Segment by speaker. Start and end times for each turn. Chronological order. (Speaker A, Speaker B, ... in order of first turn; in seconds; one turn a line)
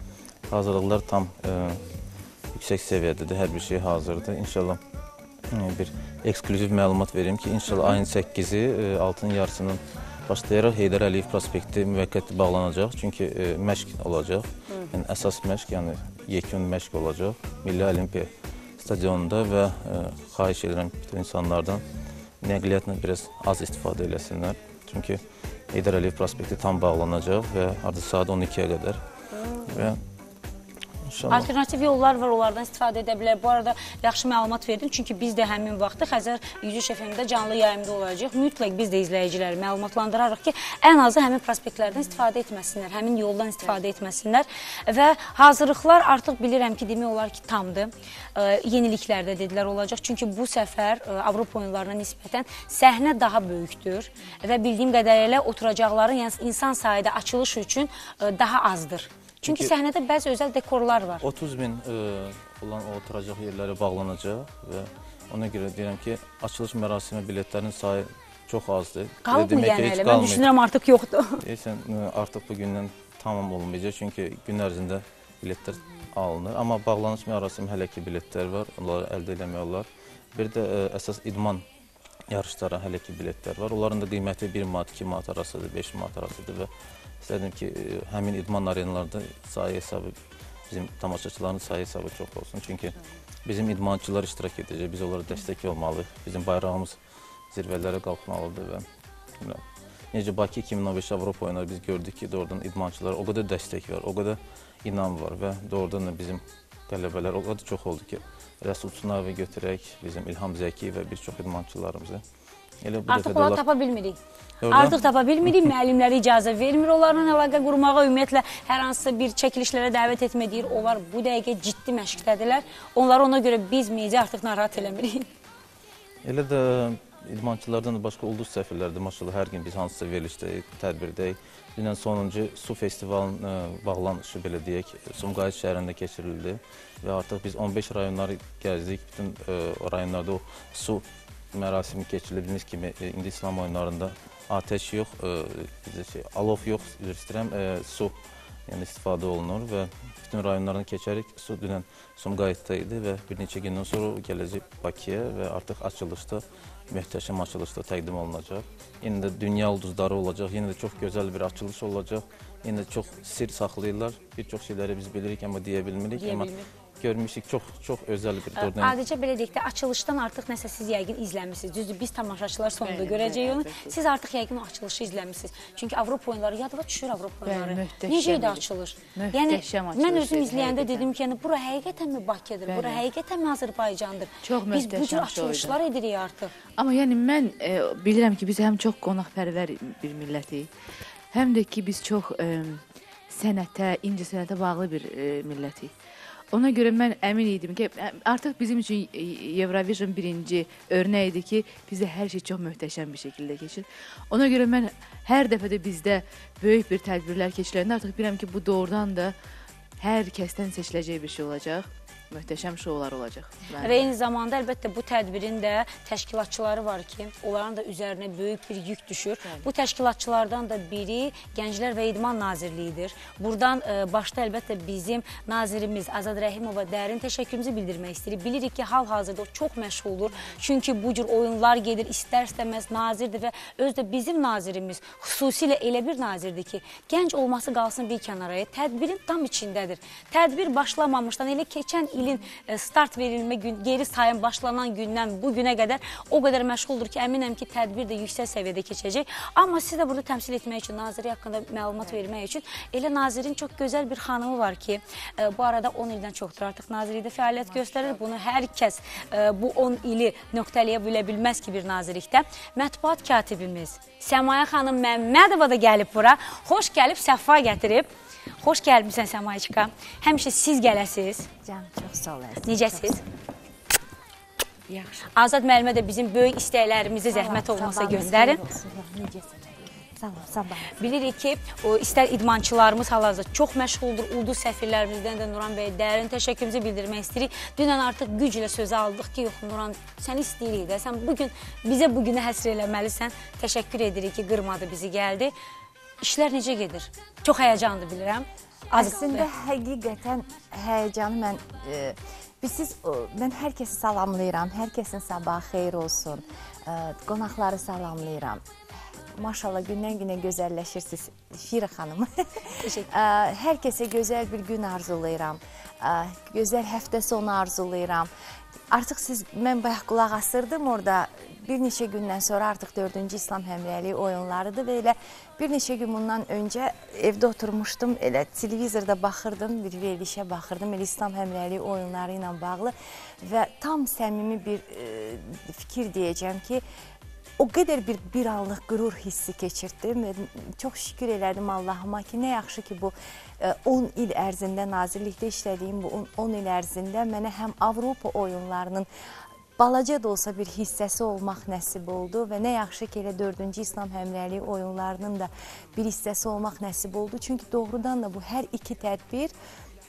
Speaker A: 0.5-1.8
Speaker A: 2.5-4.8
Speaker A: 5.5-21.8
Speaker A: 22.4-29.0
Speaker B: 29.3-29.8
Speaker A: 29.7-30.0
Speaker A: 31.1-31.5
Speaker B: 31.3-61.2
Speaker A: 59.4-59.7
Speaker A: 61.2-70.5
Speaker B: 69.2-71.4
Speaker A: 71.4-81.6
Speaker A: 82.3-86.7
Speaker A: 87.2-90.1
Speaker A: 90.7-92.9
Speaker A: 93.4-97.0
Speaker A: 97.5-98.8
Speaker A: 99.4-112.2
Speaker A: 112.8-113.6
Speaker B: 113.1-125.3
Speaker A: 114.6-115.0
Speaker A: 126.2-148.1
Speaker A: 148.7-169.0
Speaker B: 166.2-166.7
Speaker B: 168.5-186.5
Speaker C: 172.8-173.9
Speaker C: 177.4-178.6
Speaker C: 179.2-181.1
Speaker C: 182.7-183.0
Speaker C: 184.4-185.8
Speaker C: 186.8-190.7
Speaker C: 191.3-195.9
Speaker C: 196.5-209.3
Speaker C: 210.0-214.1
Speaker B: 213.8-268.1
Speaker C: 219.4-219.7
Speaker B: 268.6-271.5
Speaker D: 271.6-273.2
Speaker B: 272.6-273.2
Speaker B: 275.3-278.6
Speaker D: 277.3-281.1
Speaker B: 281.0-295.5
Speaker B: 296.2-299.5
Speaker D: 298.9-308.6
Speaker D: 309.3-318.3
Speaker B: 312.8-313.1
Speaker D: 318.9-336.8
Speaker D: 337.6-349.1
Speaker D: 349.8-359.5